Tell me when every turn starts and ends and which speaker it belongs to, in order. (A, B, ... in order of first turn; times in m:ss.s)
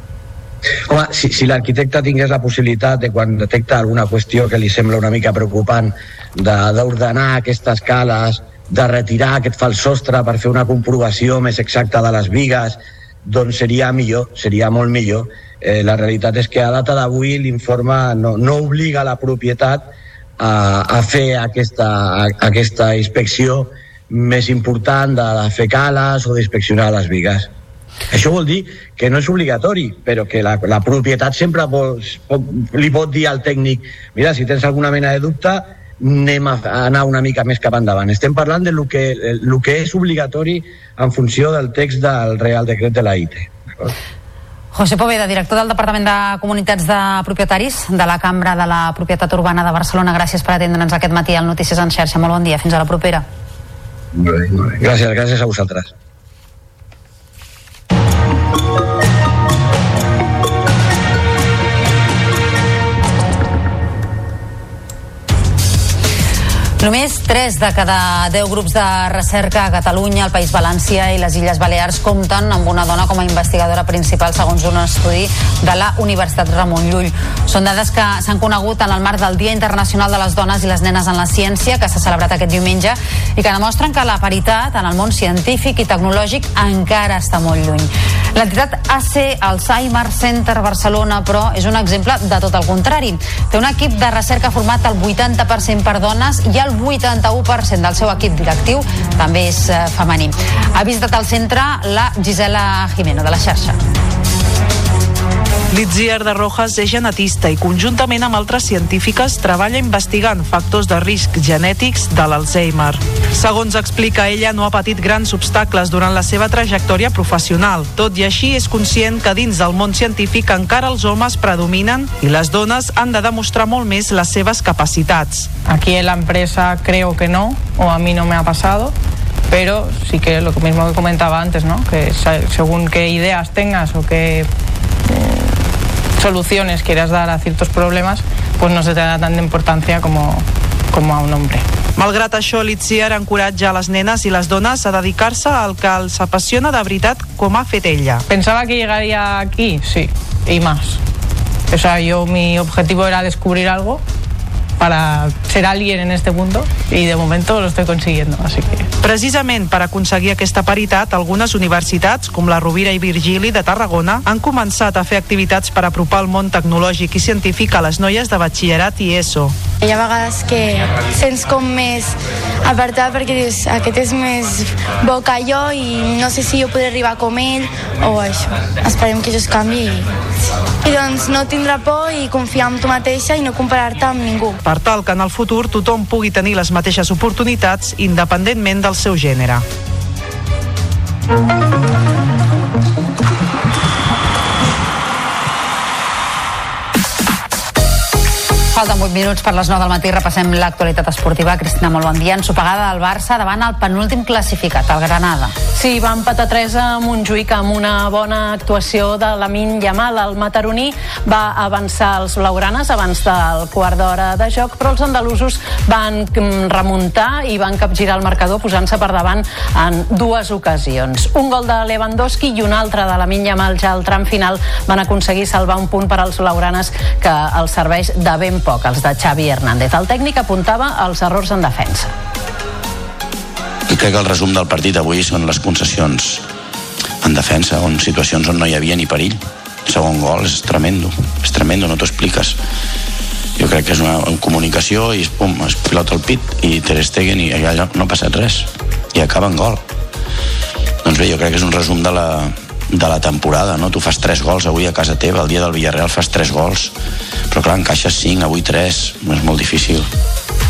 0:00.9-0:19.8 A
0:20.4-0:27.5 A
0:28.1-0:43.9 A
0:44.7-0:53.2 B
0:54.1-0:55.9 A
1:06.8-1:43.8 B
1:45.7-2:05.5 C
2:05.6-2:08.9 D
2:09.5-2:14.5 D
2:15.0-2:15.6 D
2:16.2-2:21.6 D
2:22.0-2:28.2 C
2:28.3-2:31.0 D
2:31.7-2:34.0 D
2:34.8-2:38.9 D
2:39.0-2:49.5 C
2:49.8-3:00.1 E
3:00.8-3:04.6 E
3:04.6-3:09.6 C
3:18.7-3:25.5 B
3:25.7-3:52.1 F
3:53.9-3:56.4 G
3:57.2-4:02.6 G
4:03.6-4:09.8 G
4:11.0-4:16.9 G
4:17.5-4:20.1 G